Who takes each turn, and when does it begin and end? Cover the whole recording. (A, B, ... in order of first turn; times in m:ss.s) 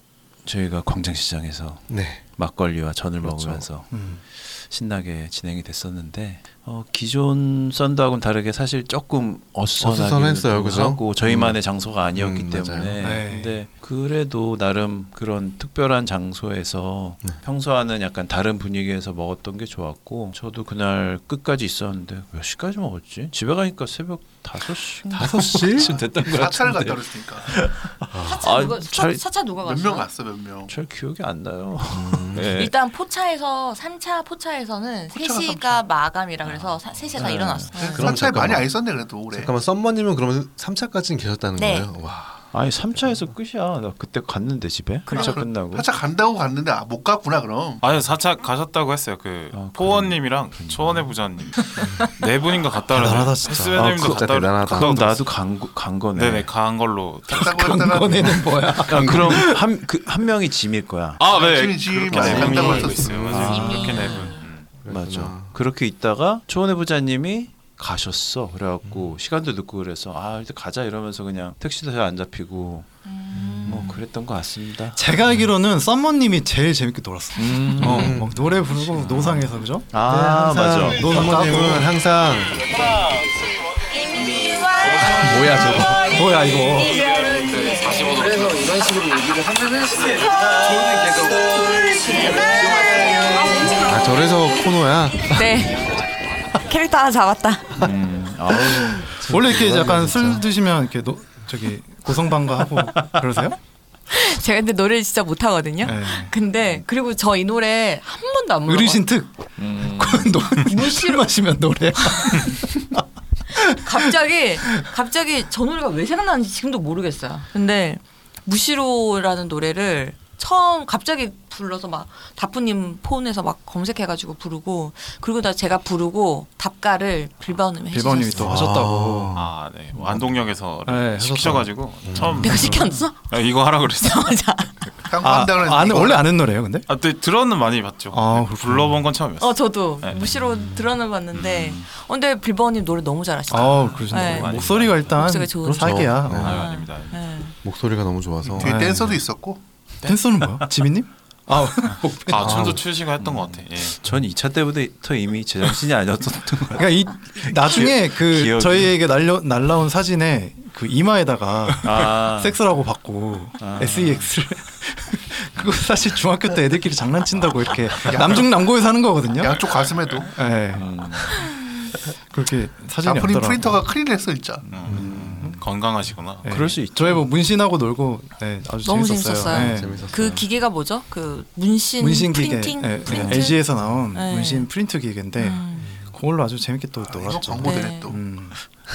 0:00.4-0:03.9 A
0:01.9-0:02.2 B
0:03.2-0:03.6 B
0:03.9-0:04.2 C
0:04.4-0:29.2 A
0:09.8-0:11.6 B
0:12.1-0:12.9 B
0:13.0-0:13.5 C
0:25.1-0:25.9 B
0:25.9-0:27.5 D
0:28.1-0:28.4 B
0:28.2-0:30.1 E
0:29.6-0:30.7 D
0:30.7-0:32.7 A
0:31.9-0:32.7 B
0:32.5-0:38.2 E
0:35.1-0:35.8 D
0:36.4-0:36.9 F
0:37.2-0:37.9 A
0:37.7-0:39.5 D
0:37.9-0:38.7 B
0:39.3-0:42.4 B
0:41.6-0:41.9 E
0:42.5-0:45.8 A
0:45.1-0:45.4 E
0:45.1-0:47.8 D
0:47.8-0:55.2 F
0:49.5-0:51.1 A
0:52.9-0:54.1 C
0:53.7-0:55.0 B
0:54.7-0:56.5 A
0:56.1-0:57.9 F
0:57.3-0:59.6 C
0:57.3-0:58.6 D
0:58.8-1:01.3 A
0:58.9-0:59.4 B
1:01.2-1:04.7 F
1:01.2-1:03.6 D
1:02.1-1:04.2 A
1:03.4-1:04.5 E
1:03.4-1:03.9 C
1:04.8-1:05.5 B
1:04.8-1:12.9 A
1:13.0-1:14.0 E
1:13.4-1:13.9 B
1:13.6-1:15.0 A
1:14.9-1:21.9 C
1:17.4-1:18.2 A
1:17.8-1:18.4 B
1:19.1-1:21.4 A
1:20.5-1:22.7 B
1:25.2-1:25.9 A
1:25.5-1:27.1 C
1:27.1-1:29.1 F
1:33.8-1:35.6 B
1:35.3-1:35.9 E
1:36.5-1:37.9 E
1:37.8-1:39.1 A
1:38.8-1:40.4 B
1:39.1-1:43.6 C
1:44.1-1:49.0 E
1:45.8-1:46.3 C
1:48.6-1:53.0 C
1:49.6-1:50.5 A
1:50.6-1:51.3 E
1:52.2-1:52.5 E
1:53.5-1:54.1 C
1:53.7-2:08.6 E
2:07.9-2:09.4 C
2:08.3-2:10.3 B
2:09.3-2:14.3 F
2:10.8-2:11.7 C
2:12.0-2:12.6 B
2:12.2-2:12.8 C
2:12.4-2:13.3 E
2:14.0-2:14.9 E
2:15.1-2:16.2 D
2:15.2-2:16.9 C
2:16.9-2:20.4 F
2:18.1-2:19.0 C
2:19.4-2:27.5 E
2:21.3-2:21.8 F
2:23.5-2:26.6 C
2:24.0-2:25.1 F
2:25.8-2:26.6 B
2:26.3-2:27.2 F
2:27.6-2:28.7 B
2:28.5-2:29.6 D
2:28.6-2:29.2 C
2:30.0-2:32.8 C
2:32.3-2:34.0 F
2:32.4-2:32.8 B
2:33.2-2:39.0 A
2:36.8-2:49.6 C
2:41.8-2:42.6 A
2:43.6-2:44.3 A
2:48.1-2:48.5 D
2:49.4-2:50.3 D
2:50.3-2:50.8 C
2:50.7-2:51.5 A
2:52.3-2:53.8 C
2:53.0-2:54.7 D
2:54.7-2:56.4 F
2:54.9-2:55.5 A
2:55.0-2:55.6 C
2:56.4-3:00.0 C
2:56.4-2:57.2 A
2:58.8-3:04.7 E
2:59.5-3:00.4 B
3:02.0-3:08.6 C
3:05.4-3:06.0 E
3:05.8-3:06.1 B
3:07.0-3:08.2 D
3:07.6-3:08.1 E